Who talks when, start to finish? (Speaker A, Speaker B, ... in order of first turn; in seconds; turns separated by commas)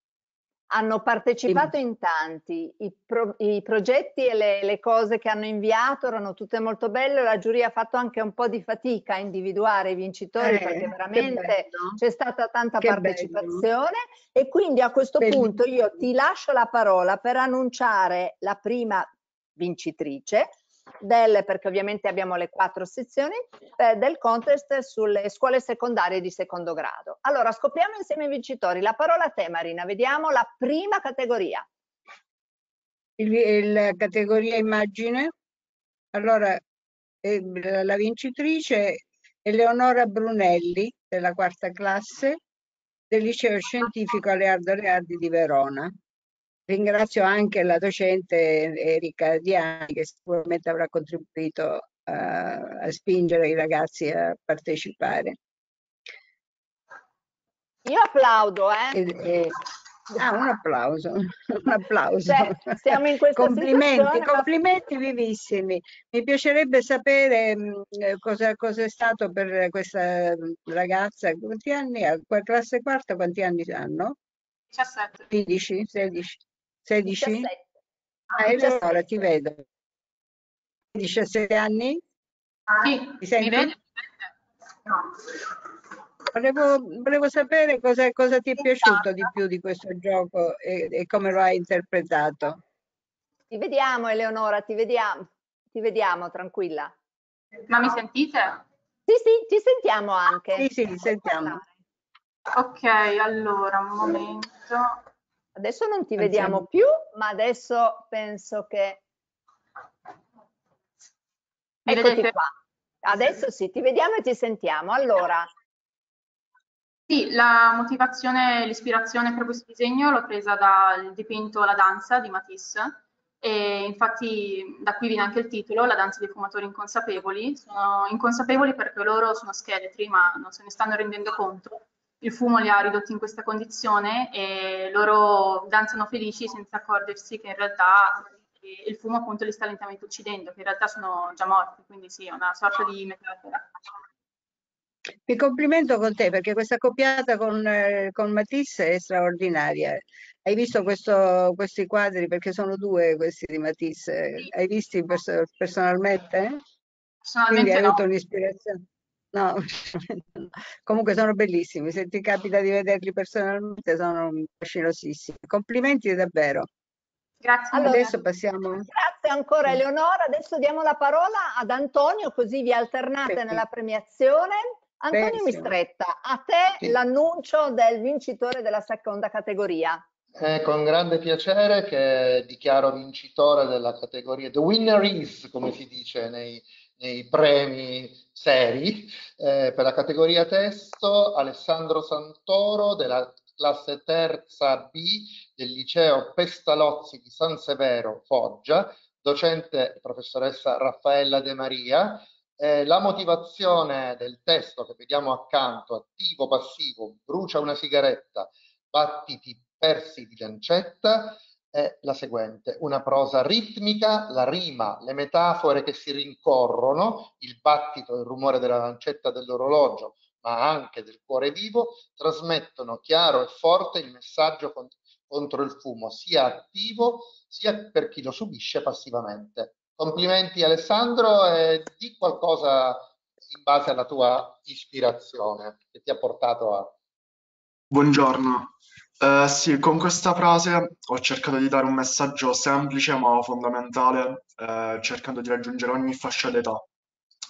Speaker A: 0.7-31.7, Speaker B: 1.5-1.7, Speaker B: 10.4-12.0, Speaker B: 12.8-13.6, Speaker B: 15.2-15.5, Speaker B: 33.2-35.3, Speaker B: 36.1-36.6, Speaker B: 37.2-42.4, Speaker B: 43.1-45.9, Speaker B: 46.7-55.4, Speaker A: 57.9-59.0, Speaker B: 58.9-59.6, Speaker B: 60.1-74.2, Speaker A: 62.3-64.5, Speaker C: 74.7-75.3, Speaker B: 75.3-77.5, Speaker A: 77.2-77.6, Speaker B: 78.4-79.6, Speaker A: 78.6-79.0, Speaker B: 80.9-82.0, Speaker C: 82.8-83.8, Speaker B: 83.2-83.8, Speaker B: 86.3-92.6, Speaker A: 93.5-96.9, Speaker C: 97.7-98.6, Speaker A: 99.1-101.7, Speaker B: 100.5-101.6, Speaker C: 102.5-105.0, Speaker A: 105.6-109.0, Speaker B: 106.2-106.6, Speaker C: 111.9-112.3, Speaker A: 111.9-112.5, Speaker A: 113.0-115.5, Speaker C: 117.1-143.8, Speaker B: 145.3-156.6, Speaker C: 157.2-158.0, Speaker B: 157.5-166.7, Speaker C: 167.4-168.1, Speaker A: 167.7-168.0, Speaker B: 167.8-168.9, Speaker A: 168.9-180.0, Speaker B: 173.3-173.6, Speaker B: 175.1-175.7, Speaker D: 180.4-237.0, Speaker E: 237.9-246.8